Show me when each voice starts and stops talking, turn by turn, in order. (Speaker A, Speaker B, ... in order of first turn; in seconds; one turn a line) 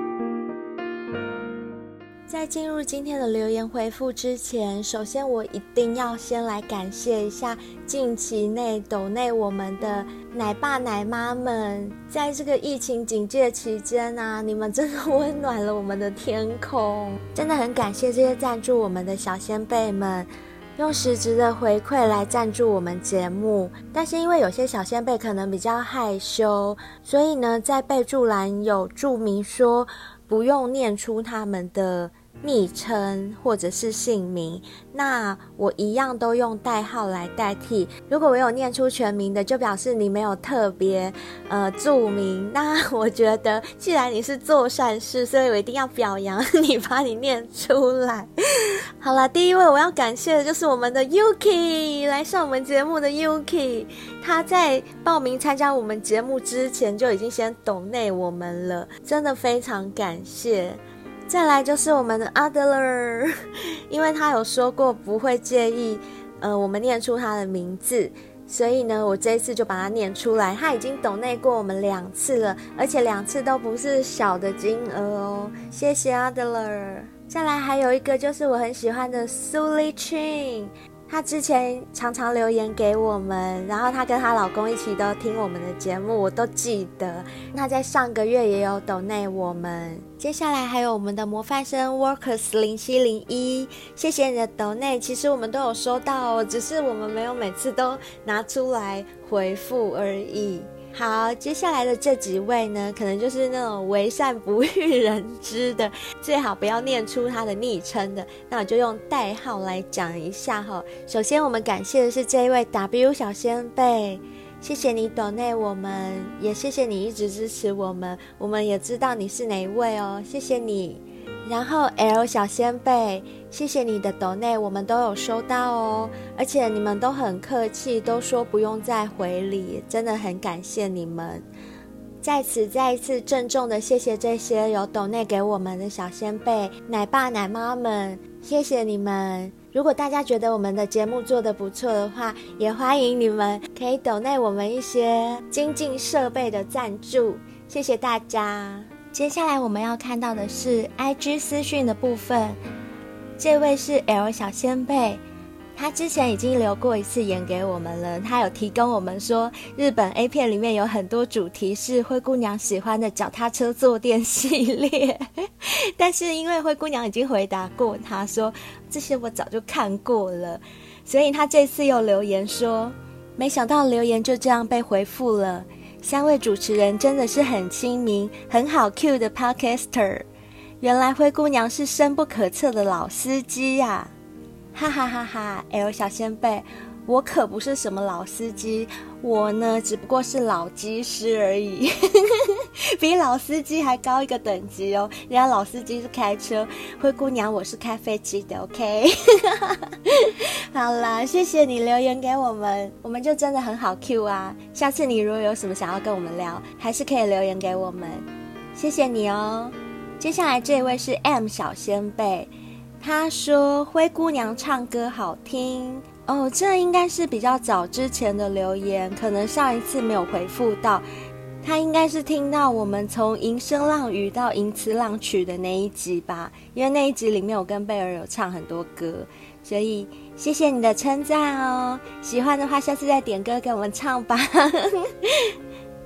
Speaker A: 2.3-48.3
Speaker A: 49.0-63.3
Speaker A: 63.9-131.4
Speaker A: 132.2-152.6
Speaker A: 153.4-155.2
Speaker A: 155.8-180.2
Speaker A: 180.8-184.1
Speaker A: 184.7-212.5
Speaker A: 213.0-221.1
Speaker A: 221.6-235.6